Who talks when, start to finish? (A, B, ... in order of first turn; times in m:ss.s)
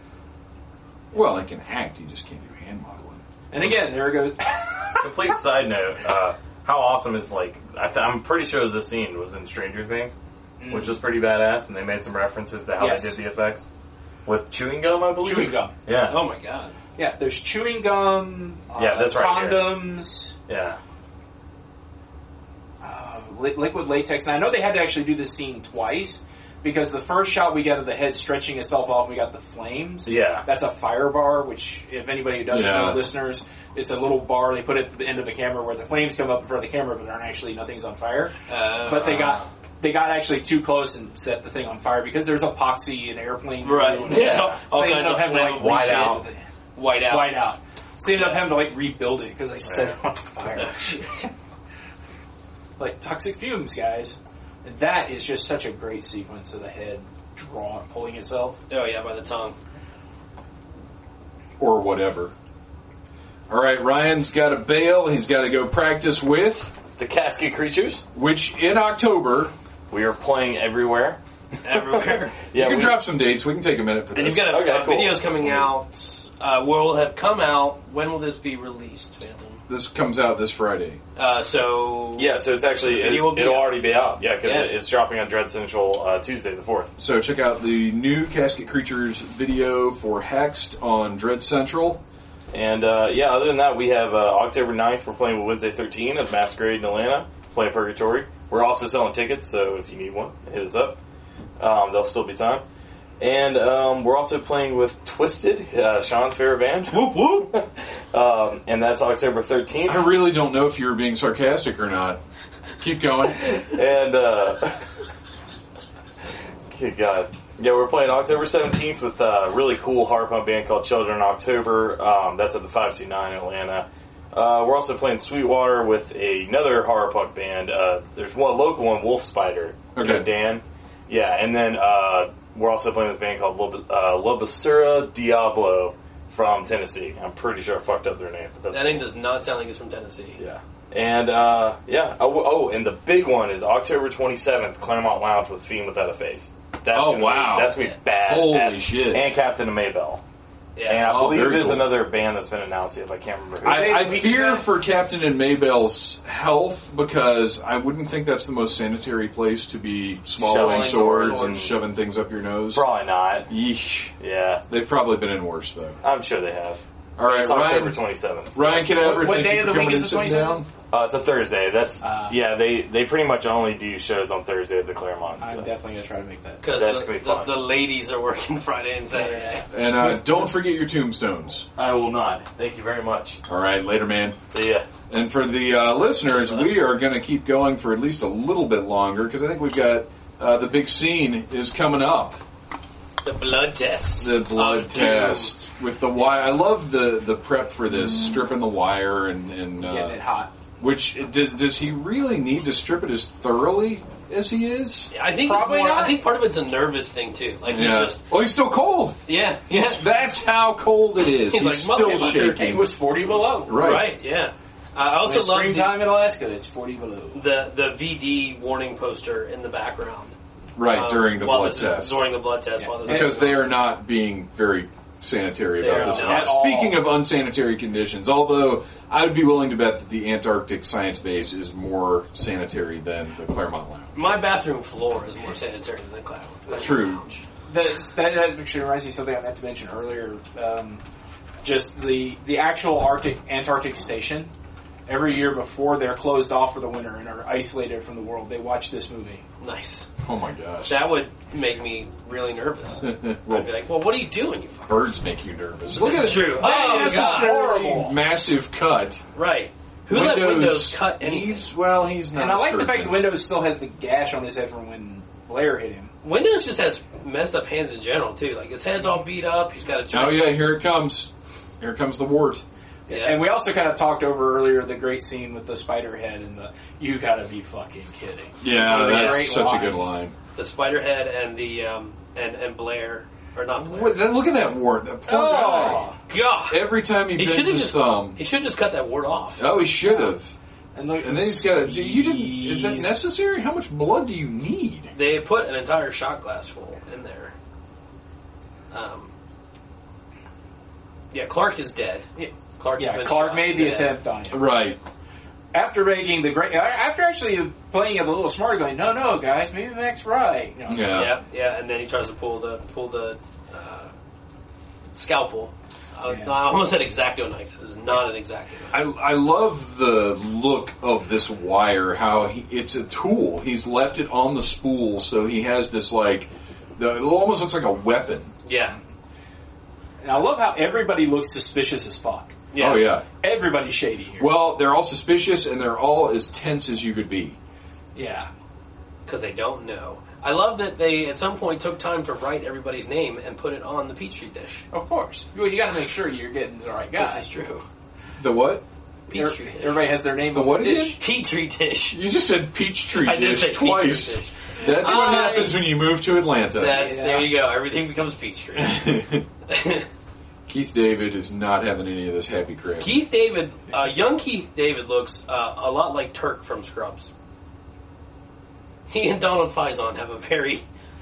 0:01.1-0:03.8 A
0:03.5-0:05.1 B
0:05.0-0:10.2 C
0:10.6-0:11.0 B
0:10.7-0:13.7 C
0:12.8-0:13.2 B
0:14.3-0:16.2 C
0:15.2-0:15.7 B
0:16.0-0:16.8 D
0:17.0-0:20.4 B
0:18.8-0:19.8 C
0:20.5-0:20.8 C
0:22.8-0:38.3 B
0:30.0-0:30.5 C
0:32.5-0:33.0 A
0:38.5-0:39.5 D
0:38.9-0:46.5 B
0:43.6-0:46.1 D
0:45.5-0:46.2 C
0:46.8-0:47.5 D
0:47.0-0:51.3 B
0:48.0-0:48.6 D
0:50.6-0:51.2 D
0:52.8-0:58.6 B
0:58.7-0:59.6 D
1:01.6-1:02.3 A
1:03.5-1:06.8 A
1:07.0-1:08.0 C
1:08.2-1:09.5 A
1:09.9-1:11.2 C
1:11.6-1:12.5 D
1:11.7-1:13.0 C
1:12.5-1:14.5 A
1:14.1-1:19.6 D
1:14.5-1:15.7 C
1:19.7-1:21.0 A
1:21.2-1:24.7 D
1:22.2-1:26.9 C
1:27.0-1:32.0 A
1:32.5-1:41.0 C
1:41.6-1:42.6 C
1:43.2-1:50.2 C
1:46.9-1:47.5 D
1:49.8-1:52.2 A
1:52.8-1:53.7 A
1:53.6-1:54.8 C
1:56.7-2:19.1 C
2:10.0-2:10.3 A
2:18.7-2:20.4 D
2:20.4-2:30.2 C
2:26.9-2:29.3 A
2:30.8-2:31.2 D
2:30.9-2:34.2 C
2:31.0-2:32.0 A
2:33.6-2:42.8 A
2:33.6-2:34.7 B
2:40.4-2:41.8 C
2:40.5-2:41.6 D
2:42.7-2:43.5 C
2:43.5-2:44.1 A
2:44.2-2:44.6 C
2:44.7-2:46.0 A
2:46.0-2:48.9 C
2:47.2-2:48.0 A
2:48.5-2:50.7 A
2:48.9-2:50.7 B
2:50.9-2:55.7 C
2:52.0-2:52.4 B
2:55.4-2:56.6 B
2:56.6-2:59.7 D
2:56.7-2:57.5 C
2:59.1-3:00.5 B
2:59.7-3:01.7 A
3:01.8-3:03.4 C
3:03.5-3:04.4 A
3:04.5-3:04.9 C
3:05.1-3:12.4 A
3:13.2-3:15.6 D
3:14.2-3:20.2 A
3:19.8-3:20.5 B
3:20.8-3:25.1 A
3:25.1-3:28.2 D
3:25.4-3:26.2 B
3:27.7-3:29.2 A
3:29.3-3:30.0 D
3:29.7-3:32.9 A
3:31.4-3:32.6 D
3:32.4-3:33.8 B
3:33.7-3:34.1 A
3:33.7-3:36.0 D
3:35.2-3:37.5 B
3:37.3-3:40.4 D
3:40.8-3:42.2 A
3:40.9-3:43.7 D
3:42.8-3:43.3 B
3:43.0-3:54.3 A
3:45.8-3:46.6 D
3:45.8-3:47.1 B
3:54.2-3:57.4 D
3:56.7-3:57.2 A
3:57.7-4:01.0 B
4:01.6-4:04.5 B
4:05.1-4:09.4 B
4:09.6-4:10.1 D
4:10.2-4:11.0 A
4:10.9-4:15.0 D
4:13.0-4:13.7 A
4:14.9-4:19.2 A
4:15.9-4:17.6 D
4:16.4-4:18.5 B
4:19.4-4:21.6 D
4:20.1-4:23.3 A
4:22.3-4:26.1 B
4:26.2-4:30.6 D
4:30.1-4:31.3 A
4:31.8-4:32.6 A
4:33.1-4:33.4 D
4:33.1-4:40.2 B
4:38.6-4:40.4 A
4:38.7-4:39.5 D
4:40.6-4:44.2 D
4:43.8-4:46.2 A
4:45.3-4:46.2 B
4:46.3-4:49.7 D
4:46.7-4:48.4 A
4:49.6-4:50.6 A
4:50.0-4:50.3 B
4:51.0-4:53.2 B
4:51.2-4:55.1 A
4:55.1-4:57.5 D
4:58.9-4:59.3 D
5:01.3-5:04.2 D
5:02.4-5:04.7 B
5:04.5-5:05.0 A
5:05.7-5:11.3 B
5:10.9-5:11.3 A
5:11.1-5:14.1 D
5:15.2-5:19.0 D
5:16.3-5:16.6 B
5:18.9-5:28.5 A
5:28.6-5:29.0 D
5:30.2-5:32.6 B
5:32.7-5:33.1 D
5:32.8-5:33.3 A
5:33.4-5:34.5 B
5:34.4-5:37.6 A
5:38.2-5:38.5 B
5:39.3-5:44.8 D
5:44.9-5:47.5 B
5:47.1-5:47.8 D
5:48.4-5:48.8 A
5:49.3-5:50.1 D
5:49.3-5:51.2 B
5:50.5-5:51.2 A
5:51.2-5:52.2 D
5:52.1-5:57.1 A
5:53.1-5:55.9 D
5:54.8-5:55.7 B
5:56.8-5:59.1 D
5:56.8-5:57.5 B
5:58.8-5:59.5 A
5:59.7-6:00.1 D
6:00.7-6:03.2 A
6:03.0-6:07.3 D
6:09.1-6:10.8 D